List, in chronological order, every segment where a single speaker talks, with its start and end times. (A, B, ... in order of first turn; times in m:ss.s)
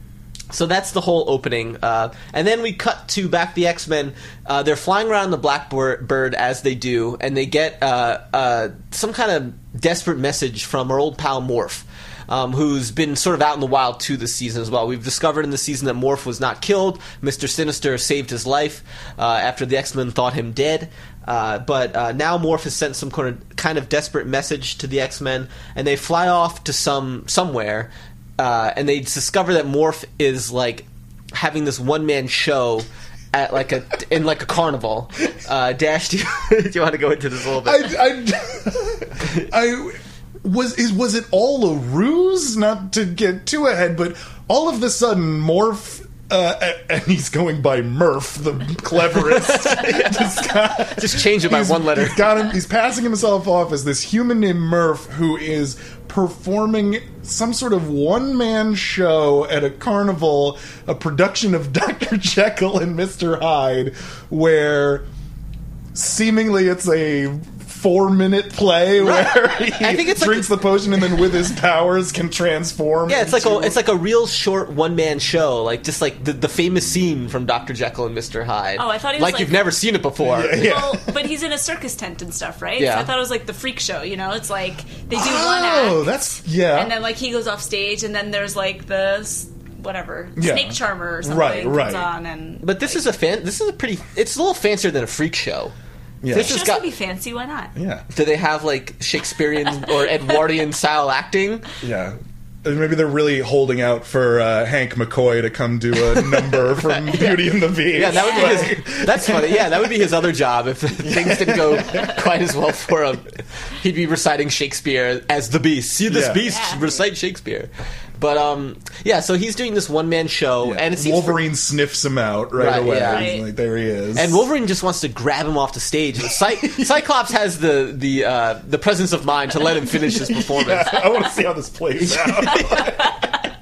0:00.5-0:37.9 A
0:37.6-1:05.1 B
0:49.1-0:52.5 A
1:05.9-1:13.8 B
1:09.0-1:10.5 A
1:13.1-1:20.7 A
1:18.8-1:19.6 C
1:20.2-1:21.1 B
1:20.4-1:33.0 C
1:22.8-1:23.1 A
1:25.1-1:26.9 B
1:30.4-1:32.1 B
1:32.6-1:35.7 A
1:36.2-1:36.6 B
1:36.3-1:36.8 A
1:36.3-1:37.7 C
1:37.8-1:38.0 B
1:38.1-1:41.7 A
1:39.8-1:40.4 C
1:41.8-1:49.6 B
1:46.0-1:47.4 A
1:47.9-2:01.4 A
1:48.0-1:48.8 C
1:51.0-1:52.1 B
1:56.1-1:56.4 B
1:56.4-1:57.0 C
2:00.6-2:04.4 B
2:02.6-2:03.3 A
2:02.9-2:03.4 C
2:04.1-2:11.0 A
2:06.6-2:06.9 B
2:10.1-2:13.2 B
2:12.0-2:13.1 A